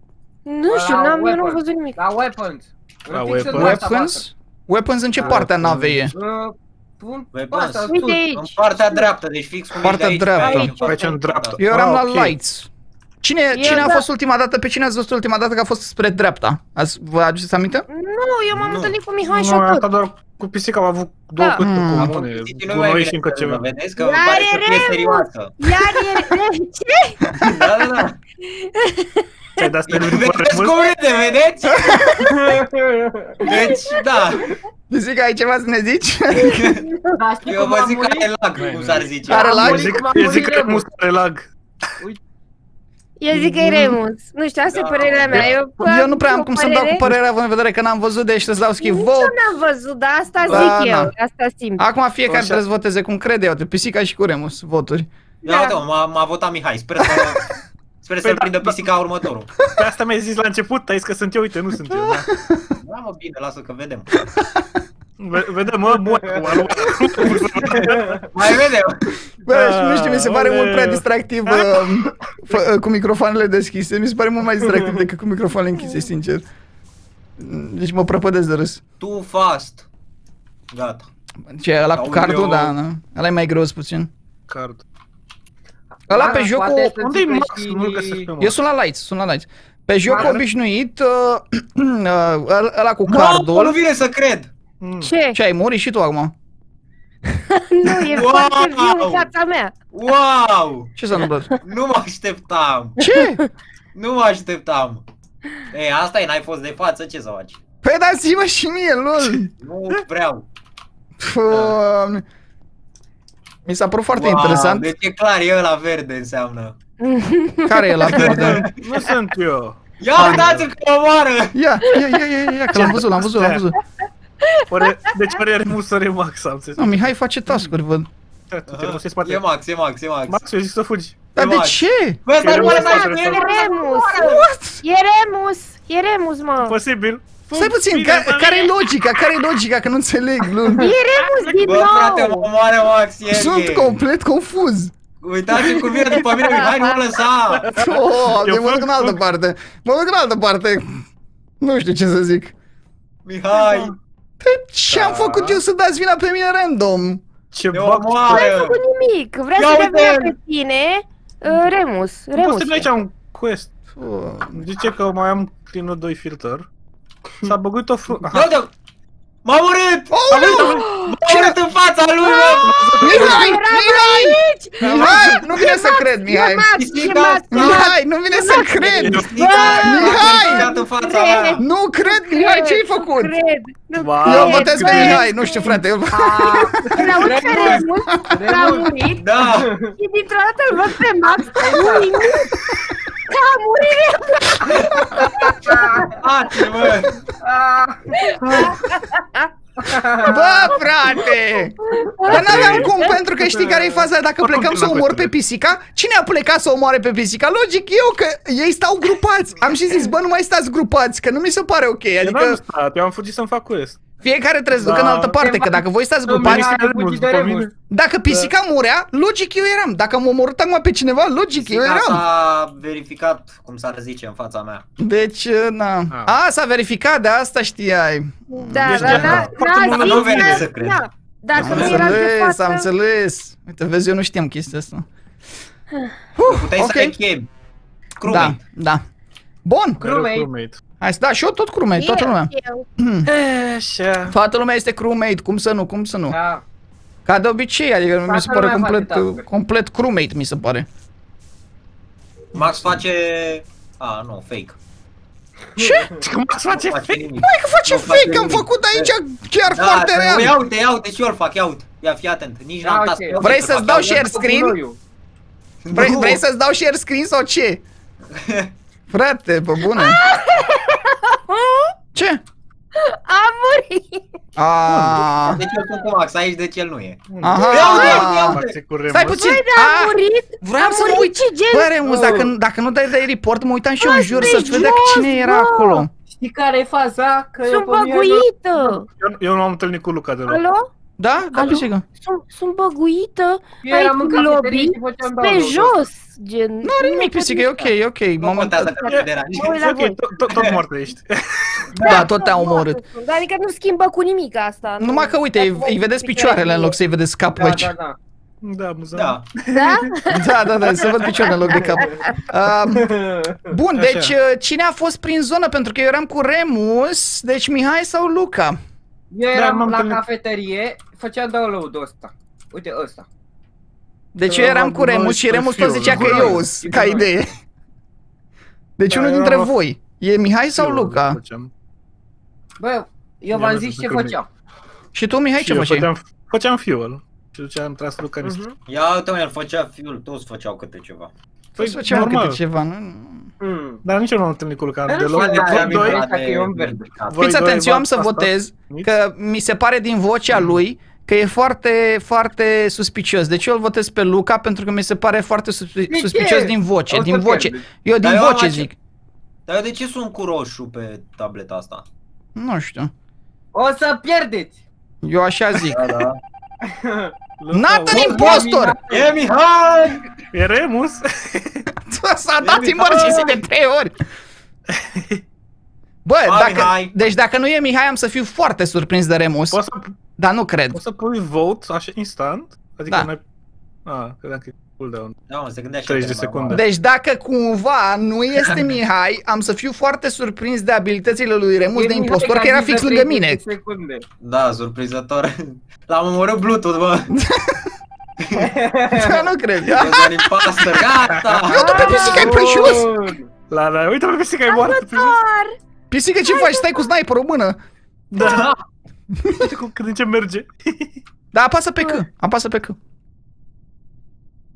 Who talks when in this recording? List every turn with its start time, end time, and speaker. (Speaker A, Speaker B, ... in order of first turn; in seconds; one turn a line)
Speaker A: 0.5-2.0
Speaker B: 0.7-4.2
Speaker C: 3.1-3.8
Speaker D: 3.5-6.1
Speaker C: 5.2-6.1
Speaker B: 5.2-5.4
Speaker B: 6.1-8.2
Speaker E: 7.3-11.6
Speaker A: 7.9-9.1
Speaker D: 9.8-10.7
Speaker B: 10.4-11.0
Speaker C: 10.5-12.3
Speaker D: 11.6-12.7
Speaker D: 13.2-17.9
Speaker A: 13.5-14.1
Speaker A: 17.9-19.9
Speaker E: 18.5-18.9
Speaker C: 19.2-23.6
Speaker D: 21.6-22.1
Speaker E: 21.9-25.6
Speaker A: 24.0-27.4
Speaker E: 27.4-28.2
Speaker A: 28.4-29.6
Speaker C: 29.6-30.7
Speaker E: 29.9-32.2
Speaker B: 32.3-33.5
Speaker E: 33.4-34.5
Speaker A: 33.5-34.0
Speaker D: 34.9-36.6
Speaker E: 36.4-36.8
Speaker A: 36.4-37.1
Speaker B: 37.1-38.3
Speaker E: 37.4-39.6
Speaker C: 38.6-42.0
Speaker D: 39.3-40.0
Speaker B: 39.3-40.9
Speaker A: 43.2-47.0
Speaker E: 44.7-45.5
Speaker D: 45.8-49.4
Speaker A: 48.8-51.8
Speaker D: 50.5-51.1
Speaker D: 51.8-55.1
Speaker C: 52.3-52.6
Speaker A: 55.4-55.8
Speaker E: 55.4-57.4
Speaker E: 58.0-59.5
Speaker C: 58.2-58.8
Speaker C: 59.8-62.3
Speaker D: 61.9-62.6
Speaker E: 62.8-64.2
Speaker C: 65.2-68.2
Speaker B: 67.9-68.2
Speaker E: 68.3-69.0
Speaker D: 69.5-76.4
Speaker C: 69.5-72.0
Speaker A: 75.8-76.0
Speaker D: 77.4-78.8
Speaker E: 79.0-79.9
Speaker E: 80.7-81.1
Speaker D: 81.5-84.1
Speaker E: 81.9-82.7
Speaker C: 84.5-84.8
Speaker B: 86.1-88.3
Speaker D: 86.1-87.0
Speaker C: 87.0-88.6
Speaker D: 88.4-93.8
Speaker B: 90.1-90.3
Speaker C: 90.1-90.4
Speaker E: 93.0-94.5
Speaker C: 94.8-95.1
Speaker A: 95.0-95.4
Speaker D: 95.3-96.3
Speaker A: 97.5-99.7
Speaker E: 97.9-99.3
Speaker E: 99.9-101.0
Speaker D: 101.0-101.5
Speaker E: 101.6-103.0
Speaker D: 103.0-103.4
Speaker A: 103.1-103.5
Speaker E: 103.9-105.0
Speaker E: 105.7-107.6
Speaker D: 107.8-109.5
Speaker E: 109.6-110.5
Speaker D: 111.2-112.2
Speaker E: 111.5-111.8
Speaker D: 113.7-114.8
Speaker E: 114.1-116.8
Speaker A: 117.0-118.2
Speaker D: 117.7-118.6
Speaker E: 118.1-118.7
Speaker C: 118.2-120.4
Speaker E: 120.0-121.5
Speaker D: 120.2-120.6
Speaker D: 121.5-123.8
Speaker C: 122.7-123.6
Speaker A: 124.4-124.9
Speaker C: 124.7-127.7
Speaker D: 126.8-128.1
Speaker C: 128.5-129.4
Speaker E: 128.7-130.4
Speaker C: 130.3-131.2
Speaker D: 131.3-132.2
Speaker E: 131.3-134.3
Speaker C: 132.4-133.5
Speaker A: 132.5-136.7
Speaker D: 134.2-134.8
Speaker C: 136.6-138.7
Speaker D: 137.5-140.9
Speaker A: 140.8-142.5
Speaker C: 141.4-141.7
Speaker E: 141.6-144.0
Speaker D: 143.3-144.9
Speaker E: 145.2-147.6
Speaker A: 145.6-146.9
Speaker C: 147.5-149.2
Speaker D: 147.8-151.0
Speaker D: 151.6-152.5
Speaker E: 153.2-153.9
Speaker C: 153.6-153.9
Speaker D: 154.4-157.2
Speaker C: 154.9-155.6
Speaker C: 157.5-158.4
Speaker E: 157.7-158.8
Speaker A: 158.3-162.9
Speaker E: 159.5-160.3
Speaker C: 162.3-163.7
Speaker D: 163.9-164.6
Speaker C: 164.5-166.7
Speaker C: 167.4-168.6
Speaker E: 168.3-168.7
Speaker E: 169.4-173.2
Speaker D: 170.1-171.6
Speaker C: 170.3-170.8
Speaker A: 170.6-171.2
Speaker A: 172.2-185.8
Speaker C: 172.6-173.5
Speaker D: 173.0-176.7
Speaker C: 174.8-175.4
Speaker E: 176.8-177.9
Speaker D: 177.5-180.7
Speaker C: 178.8-179.4
Speaker E: 178.9-181.6
Speaker D: 181.6-183.3
Speaker C: 184.0-185.8
Speaker D: 184.2-187.1
Speaker B: 186.1-188.9
Speaker A: 186.9-189.2
Speaker D: 188.6-188.9
Speaker E: 189.2-189.7
Speaker B: 189.6-189.9
Speaker A: 189.9-192.5
Speaker B: 191.3-192.2
Speaker A: 193.3-196.1
Speaker B: 195.6-196.2
Speaker E: 196.2-197.2
Speaker B: 197.4-198.1
Speaker A: 198.1-199.5
Speaker C: 198.4-198.8
Speaker B: 199.8-200.4
Speaker D: 200.2-212.6
Speaker A: 201.9-203.1
Speaker C: 202.3-203.0
Speaker B: 203.6-204.0
Speaker C: 204.4-205.3
Speaker C: 212.2-214.0
Speaker D: 214.2-216.7
Speaker C: 214.8-215.4
Speaker B: 214.8-217.7
Speaker C: 216.4-217.7
Speaker D: 217.9-222.2
Speaker C: 218.3-218.5
Speaker E: 221.5-224.8
Speaker D: 225.0-229.3
Speaker C: 226.1-226.4
Speaker A: 228.5-232.9
Speaker C: 228.7-230.7
Speaker E: 229.0-231.0
Speaker E: 231.6-232.2
Speaker D: 231.6-235.1
Speaker C: 231.7-232.1
Speaker D: 236.3-237.1
Speaker E: 236.5-237.5
Speaker E: 238.2-238.6
Speaker D: 238.2-239.0
Speaker D: 239.6-240.0
Speaker C: 240.0-240.8
Speaker B: 240.0-240.5
Speaker D: 241.0-243.3
Speaker A: 241.9-242.8
Speaker C: 243.3-244.3
Speaker D: 244.3-246.4
Speaker B: 246.3-246.6
Speaker D: 247.2-250.9
Speaker B: 248.2-249.4
Speaker E: 252.5-254.8
Speaker B: 255.7-256.2
Speaker D: 255.8-256.1
Speaker C: 256.2-257.2
Speaker E: 256.7-259.1
Speaker D: 257.4-260.6
Speaker E: 259.7-264.1
Speaker B: 262.8-265.0
Speaker D: 263.4-264.8
Speaker E: 265.8-266.4
Speaker D: 265.9-267.8
Speaker E: 268.4-268.7
Speaker D: 269.1-270.2
Speaker A: 269.9-271.9
Speaker D: 272.1-272.4
Speaker A: 273.0-274.2
Speaker D: 274.6-275.6
Speaker C: 274.9-275.3
Speaker E: 275.5-278.8
Speaker C: 277.3-279.4
Speaker D: 277.4-286.1
Speaker A: 277.7-278.4
Speaker A: 279.4-281.9
Speaker B: 282.0-282.5
Speaker A: 284.0-286.0
Speaker B: 284.3-284.9
Speaker B: 286.3-289.0
Speaker A: 287.7-289.1
Speaker C: 289.2-290.6
Speaker A: 290.5-290.9
Speaker D: 291.2-292.0
Speaker A: 291.5-297.9
Speaker B: 293.8-296.0
Speaker D: 296.8-298.9
Speaker E: 298.4-299.8
Speaker A: 298.8-300.3
Speaker C: 299.0-301.9
Speaker A: 301.9-307.0
Speaker D: 302.0-303.0
Speaker D: 305.0-307.9
Speaker B: 307.5-308.2
Speaker C: 308.6-310.0
Speaker E: 309.1-309.4
Speaker A: 309.7-312.3
Speaker D: 310.3-313.1
Speaker B: 311.7-312.2
Speaker B: 312.9-313.6
Speaker D: 313.6-318.8
Speaker C: 313.9-314.3
Speaker B: 319.3-323.2
Speaker C: 319.5-320.2
Speaker D: 324.3-327.5
Speaker B: 324.4-324.9
Speaker C: 324.8-326.7
Speaker B: 326.1-327.3
Speaker D: 329.0-331.4
Speaker C: 329.1-329.7
Speaker C: 330.8-331.7
Speaker B: 332.8-334.5
Speaker C: 333.5-334.4
Speaker D: 335.1-336.1
Speaker C: 335.6-338.6
Speaker B: 338.4-338.7
Speaker E: 338.9-341.3
Speaker C: 341.8-342.6
Speaker D: 341.8-343.5
Speaker B: 343.6-344.0
Speaker C: 344.0-346.2
Speaker B: 345.1-347.0
Speaker E: 345.4-347.4
Speaker C: 347.3-349.1
Speaker D: 347.4-358.9
Speaker B: 356.1-357.9
Speaker E: 358.2-358.9
Speaker E: 359.7-362.1
Speaker D: 362.6-363.1
Speaker B: 363.7-364.8
Speaker D: 365.2-366.0
Speaker E: 365.9-366.4
Speaker B: 366.9-367.3
Speaker C: 367.6-368.3
Speaker D: 367.7-369.0
Speaker B: 368.1-369.4
Speaker E: 368.2-368.6
Speaker E: 369.1-370.2
Speaker C: 370.5-371.8
Speaker D: 372.1-374.1
Speaker E: 372.6-373.5
Speaker B: 373.2-373.5
Speaker C: 374.9-375.4
Speaker D: 376.2-379.8
Speaker E: 376.4-377.3
Speaker C: 379.7-380.1
Speaker D: 380.4-381.0
Speaker C: 380.9-383.4
Speaker C: 384.1-385.3
Speaker E: 385.5-386.8
Speaker C: 386.0-386.8
Speaker D: 386.7-393.6
Speaker B: 391.9-394.2
Speaker E: 394.4-397.3
Speaker D: 397.3-397.9
Speaker E: 398.4-398.7
Speaker B: 398.6-399.4
Speaker D: 399.1-400.3
Speaker E: 399.9-402.3
Speaker C: 401.3-401.6
Speaker D: 401.7-403.1
Speaker A: 401.7-402.6
Speaker B: 402.2-403.5
Speaker C: 403.7-405.4
Speaker A: 404.7-405.7
Speaker D: 406.1-407.8
Speaker A: 406.4-407.1
Speaker C: 408.3-408.6
Speaker A: 408.4-408.7
Speaker E: 408.4-408.8
Speaker D: 409.4-409.7
Speaker C: 409.6-411.2
Speaker D: 411.5-413.0